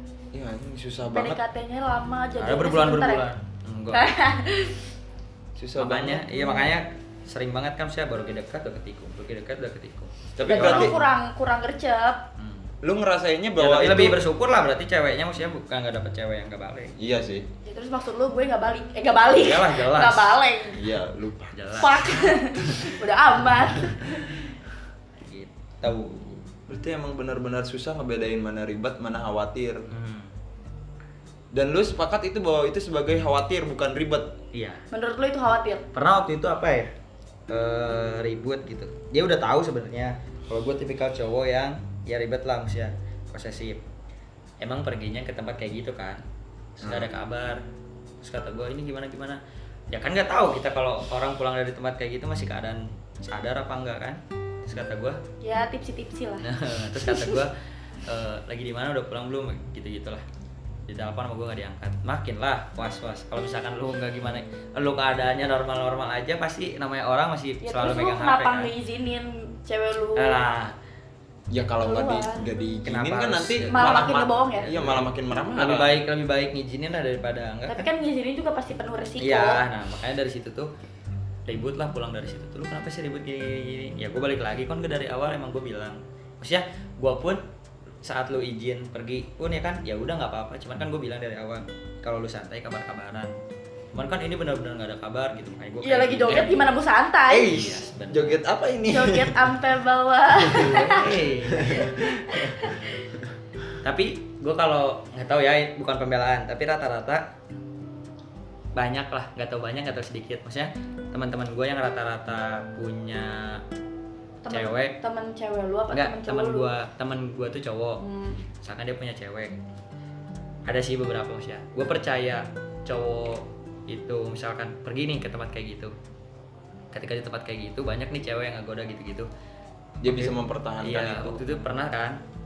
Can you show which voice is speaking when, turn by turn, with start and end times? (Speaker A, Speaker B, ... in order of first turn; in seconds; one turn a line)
Speaker A: 0.3-1.4
Speaker B: 1.1-3.3
Speaker C: 2.4-4.0
Speaker B: 3.9-4.9
Speaker A: 5.5-6.2
Speaker C: 5.8-10.9
Speaker B: 6.3-6.7
Speaker A: 10.4-10.9
Speaker B: 10.4-12.3
Speaker C: 12.4-12.7
Speaker A: 12.8-14.2
Speaker C: 13.6-16.9
Speaker A: 17.0-17.4
Speaker B: 17.6-20.8
Speaker C: 19.3-20.4
Speaker A: 20.7-21.6
Speaker C: 21.5-22.4
Speaker B: 21.8-24.4
Speaker C: 25.2-25.5
Speaker A: 25.8-29.9
Speaker C: 29.9-30.3
Speaker A: 31.5-34.3
Speaker C: 34.5-34.8
Speaker B: 34.9-35.9
Speaker C: 35.9-36.9
Speaker C: 37.5-43.8
Speaker C: 44.6-46.2
Speaker C: 46.8-47.6
Speaker A: 46.8-47.1
Speaker C: 48.2-49.4
Speaker C: 49.9-55.2
Speaker B: 55.4-57.4
Speaker C: 56.4-57.5
Speaker C: 58.0-60.2
Speaker C: 60.9-68.7
Speaker B: 67.6-70.4
Speaker C: 70.2-70.7
Speaker A: 71.5-76.0
Speaker B: 71.8-72.4
Speaker C: 72.9-77.9
Speaker B: 73.7-74.7
Speaker B: 77.7-79.6
Speaker C: 79.2-80.7
Speaker C: 81.5-87.4
Speaker C: 88.0-93.3
Speaker C: 93.9-96.7
Speaker B: 95.8-97.7
Speaker C: 97.3-98.4
Speaker A: 97.3-99.5
Speaker B: 98.9-101.1
Speaker A: 100.5-100.8
Speaker C: 100.5-102.8
Speaker A: 101.5-102.2
Speaker B: 102.3-103.0
Speaker C: 103.8-107.2
Speaker C: 108.7-113.6
Speaker B: 114.4-116.7
Speaker C: 114.5-115.0
Speaker C: 115.9-118.0
Speaker B: 118.0-118.4
Speaker C: 118.6-119.5
Speaker C: 120.7-125.9
Speaker C: 126.9-129.3
Speaker A: 130.0-131.4
Speaker C: 130.0-132.2